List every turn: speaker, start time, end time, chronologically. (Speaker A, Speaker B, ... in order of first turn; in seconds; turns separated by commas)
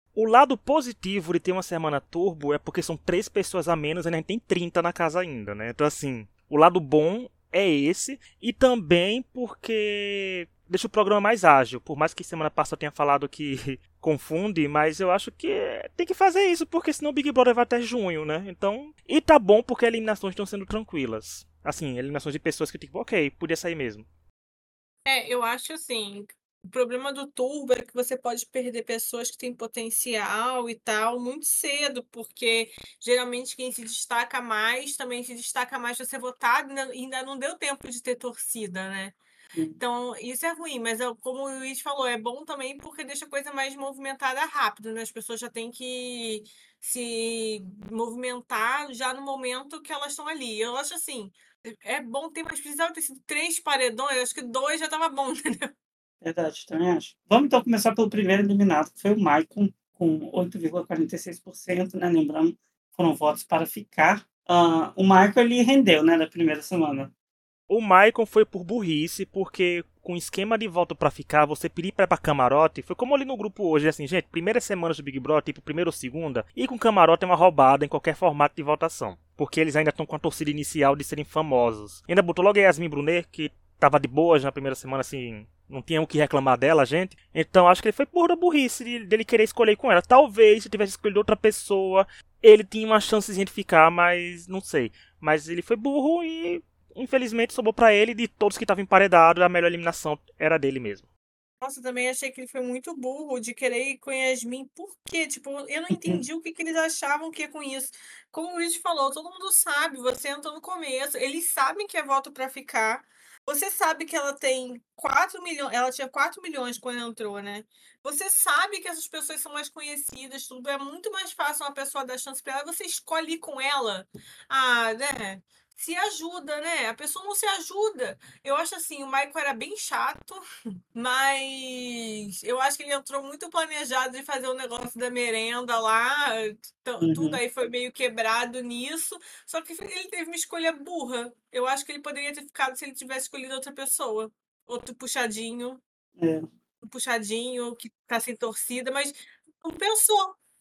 Speaker A: 0.1-24.1, Speaker B: 25.1-39.1, Speaker C: 39.5-39.8, Speaker B: 39.8-55.7, Speaker C: 56.2-67.1, Speaker A: 67.7-101.0, Speaker B: 101.6-130.4, Speaker B: 130.9-145.8, Speaker C: 137.0-137.4, Speaker C: 146.2-146.4, Speaker B: 146.8-150.3